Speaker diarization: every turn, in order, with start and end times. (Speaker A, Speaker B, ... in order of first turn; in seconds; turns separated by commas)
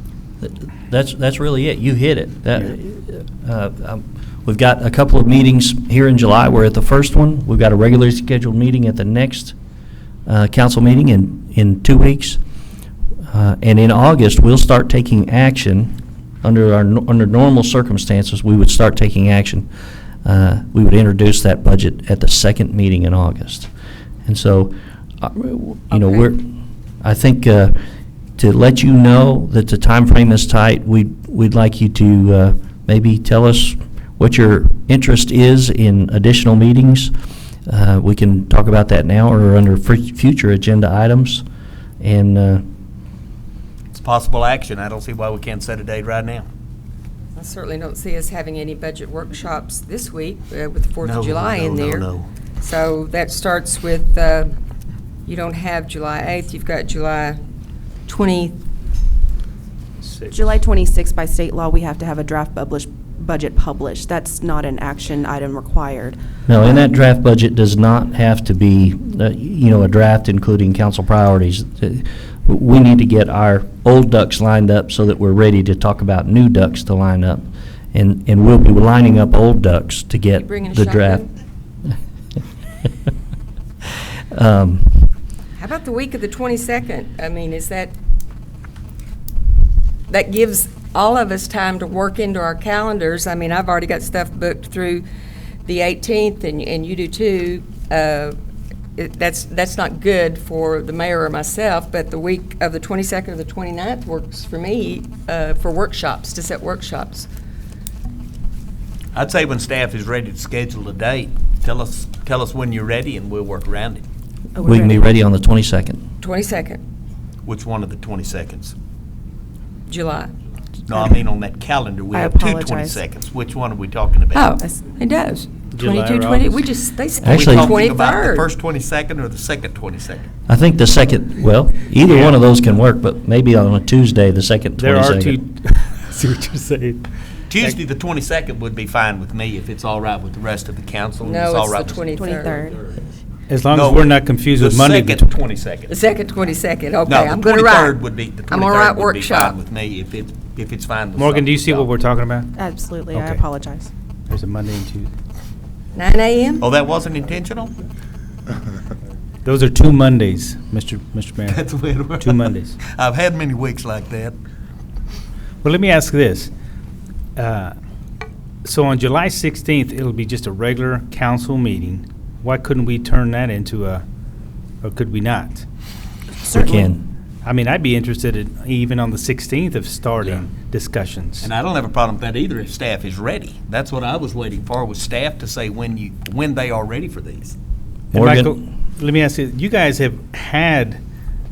Speaker A: 0.4-9.5, Speaker A: 10.2-12.4, Speaker A: 13.3-19.7, Speaker A: 20.2-23.7, Speaker A: 24.2-26.4, Speaker B: 25.9-26.3, Speaker A: 27.0-27.8, Speaker A: 28.4-37.1, Speaker A: 37.7-41.4, Speaker A: 42.0-42.6, Speaker C: 43.9-46.5, Speaker B: 47.4-52.1, Speaker C: 51.0-52.3, Speaker B: 52.6-54.5, Speaker B: 55.2-57.4, Speaker B: 58.1-58.6, Speaker D: 60.0-60.4, Speaker E: 60.3-66.2, Speaker A: 66.5-81.2, Speaker B: 80.4-81.3, Speaker A: 84.3-85.1, Speaker B: 85.6-87.9, Speaker B: 90.1-95.0, Speaker B: 95.6-98.3, Speaker B: 99.0-107.3, Speaker C: 109.1-114.0, Speaker E: 114.5-115.1, Speaker A: 114.6-116.0, Speaker B: 116.2-116.8, Speaker C: 117.5-118.7, Speaker B: 119.9-120.3, Speaker C: 120.9-124.5, Speaker E: 122.1-123.0, Speaker B: 124.3-128.5, Speaker D: 125.7-126.6, Speaker A: 127.2-127.8, Speaker C: 127.2-130.3, Speaker A: 130.5-135.4, Speaker D: 132.1-132.4, Speaker D: 134.8-137.1, Speaker C: 137.5-142.0, Speaker B: 141.2-142.7, Speaker E: 142.2-142.8, Speaker D: 143.5-145.3, Speaker C: 143.7-145.9, Speaker B: 145.9-149.6, Speaker C: 147.1-151.9, Speaker D: 151.2-152.6, Speaker E: 152.6-153.9, Speaker D: 153.1-153.4, Speaker D: 154.3-155.1, Speaker B: 155.9-156.7, Speaker C: 156.6-157.7, Speaker D: 159.4-162.8, Speaker C: 161.5-164.3, Speaker D: 165.6-166.5, Speaker D: 167.4-167.7, Speaker D: 168.6-174.0, Speaker D: 174.8-175.6, Speaker E: 176.5-176.9, Speaker A: 176.5-177.1, Speaker D: 177.4-181.5, Speaker C: 181.4-187.5, Speaker D: 188.1-191.0, Speaker A: 188.1-188.5